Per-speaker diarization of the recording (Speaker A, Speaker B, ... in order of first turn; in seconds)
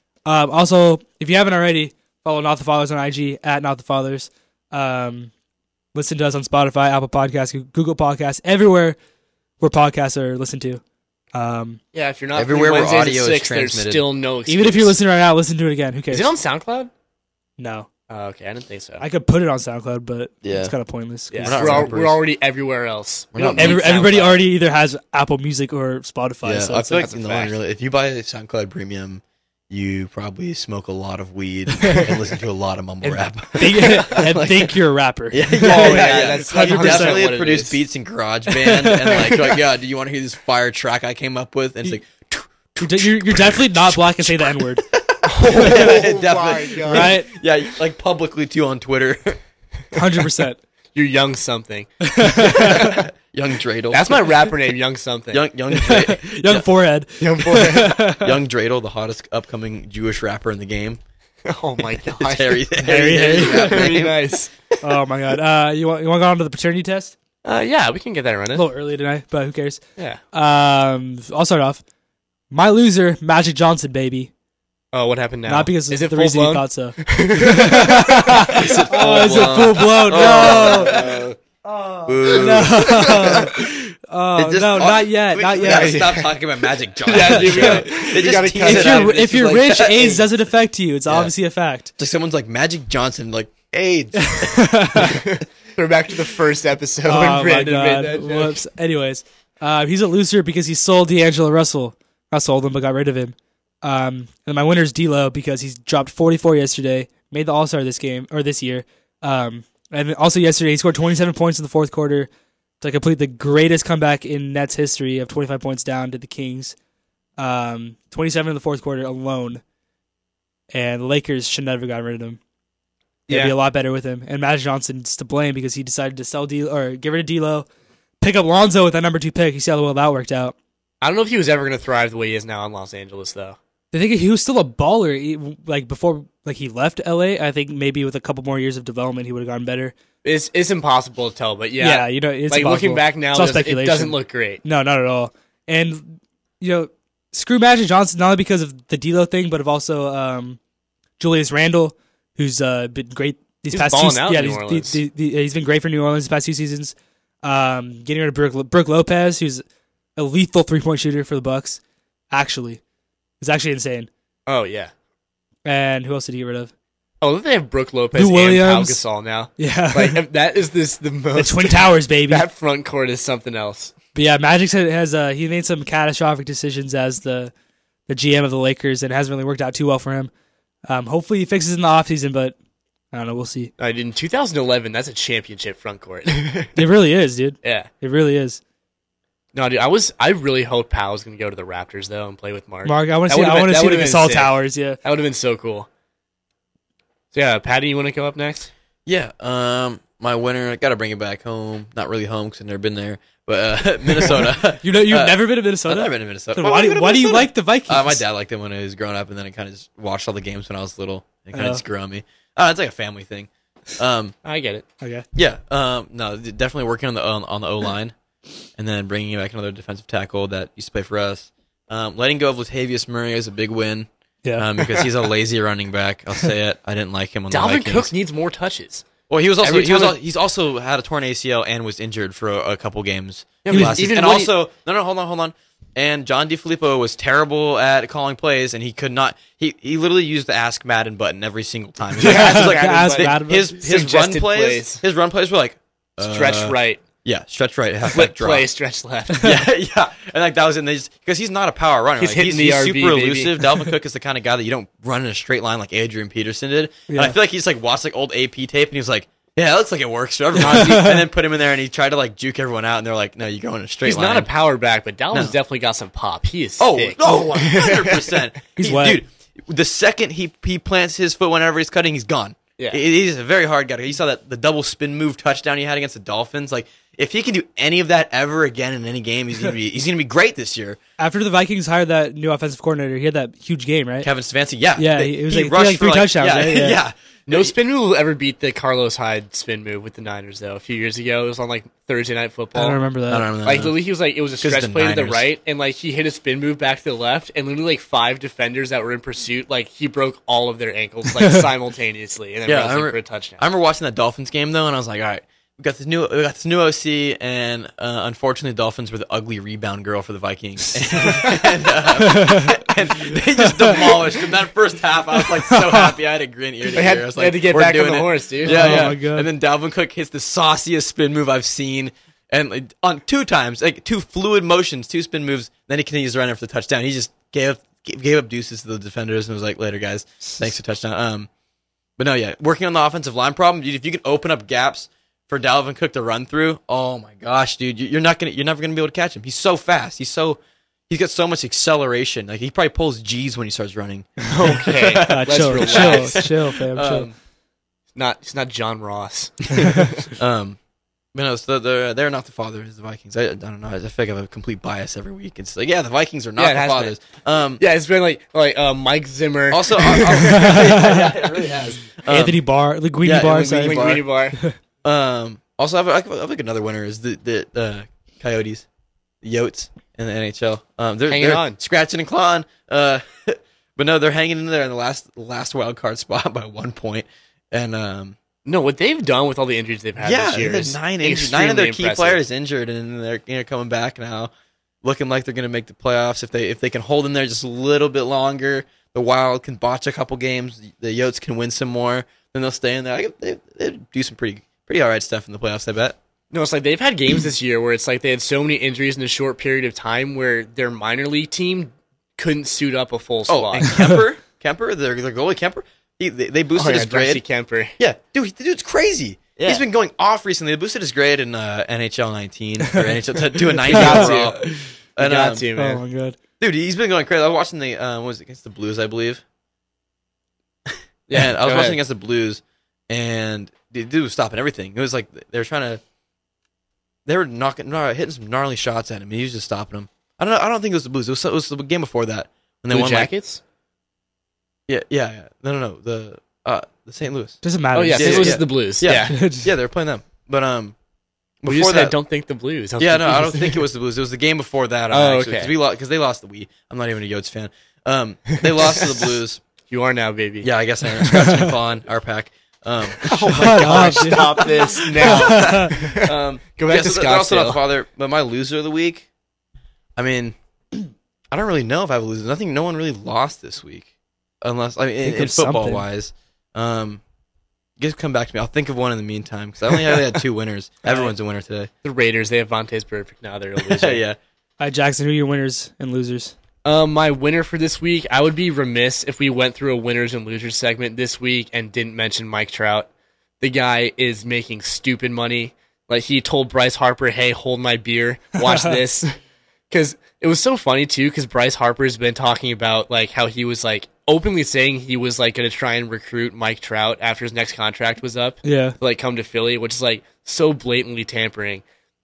Speaker A: 0.3-5.3, 5.9-9.0, 9.6-10.8, 11.3-11.8, 14.5-16.3, 17.6-17.9, 19.0-21.9, 23.5-27.1, 31.8-32.1, 33.0-37.3, 38.5-39.6, 42.8-44.9, 45.6-45.9, 46.9-47.3, 49.9-50.6, 52.0-53.0, 55.7-58.4, 62.8-64.0, 64.8-67.2, 68.5-69.8, 70.3-71.8, 72.5-74.3, 75.5-81.1, 81.6-86.0, 87.2-88.1, 88.6-91.9, 94.2-95.2, 97.1-112.3, 112.8-116.8, 117.4-119.6, 120.7-122.4, 123.3-127.7, 128.2-130.6, 133.9-139.9, 141.8-150.6, 151.2-159.6, 160.2-161.8, 162.3-162.8, 163.4-164.1, 165.7-166.7, 168.2-169.0, 169.6-170.2, 171.4-172.5, 174.2-177.5, 178.1-180.3, 180.9-182.6, 183.1-183.7, 186.8-188.6, 192.8-195.0, 204.4-208.2, 211.5-211.8, 233.7-234.0, 242.2-243.7, 257.1-257.4, 260.6-261.2, 268.8-269.2, 281.2-284.3, 285.0-287.0, 292.8-293.5, 312.1-312.8, 313.3-314.2, 315.4-316.1, 318.6-319.5, 345.2-347.3, 360.4-361.3, 362.3-364.8, 412.9-414.9, 415.8-416.4, 437.6-438.6, 439.2-439.7, 451.3-451.7, 453.5-455.9, 465.2-466.1, 474.8-476.6, 488.6-489.0, 498.6-499.0
Speaker B: 11.9-15.0, 16.1-16.9, 18.1-19.0, 21.3-24.5, 27.0-27.6, 35.6-37.8, 45.2-47.2, 51.0-53.0, 53.9-55.5, 57.2-58.0, 61.5-62.6, 63.3-64.5, 67.4-68.7, 74.9-81.2, 82.8-83.3, 85.6-86.4, 87.0-89.2, 95.0-98.6, 123.3-123.6, 131.0-133.6, 140.2-144.6, 153.7-155.0, 164.5-164.9, 167.2-173.9, 183.8-186.8, 187.6-187.9, 189.5-195.9, 197.3-198.7, 214.4-214.8, 224.8-225.1, 227.5-229.1, 229.6-230.2, 233.6-234.5, 242.2-245.0, 246.2-247.0, 248.1-249.6, 252.2-253.6, 260.6-261.2, 264.0-268.4, 287.5-293.0, 293.6-303.6, 311.2-311.6, 316.9-319.1, 344.5-346.4, 348.1-350.3, 356.6-357.2, 357.8-361.0, 363.4-364.6, 371.3-371.8, 378.7-382.4, 396.5-404.1, 406.8-408.0, 409.6-409.8, 413.8-414.6, 415.2-416.0, 421.3-422.0, 432.9-433.6, 437.9-439.4, 441.6-443.9, 445.1-445.7, 448.5-449.3, 449.9-450.7, 453.2-457.8, 472.0-474.2, 476.8-483.1, 483.6-489.3, 489.9-501.8
Speaker C: 12.3-14.0, 20.4-20.8, 21.4-22.2, 23.3-23.8, 26.4-49.4, 52.4-54.5, 55.3-56.6, 58.2-61.0, 61.9-64.4, 78.4-81.3, 82.1-90.3, 91.1-91.3, 92.0-95.2, 199.1-214.3, 215.3-218.2, 218.8-228.1, 229.3-248.7, 249.4-264.5, 266.8-281.0, 284.2-287.7, 293.3-293.9, 294.6-295.5, 302.7-331.5, 332.2-347.3, 350.3-350.8, 351.3-357.8, 359.7-362.6, 363.2-364.2, 365.0-368.9, 369.4-378.4, 380.2-384.5, 385.0-396.2, 403.5-407.4, 408.0-415.7, 416.6-419.4, 420.9-426.0, 427.3-433.3, 434.9-437.6, 438.1-441.0, 441.6-442.1, 443.0-449.6, 450.6-459.3, 460.2-460.6, 461.5-464.1, 464.6-467.2, 468.0-471.9, 473.8-474.4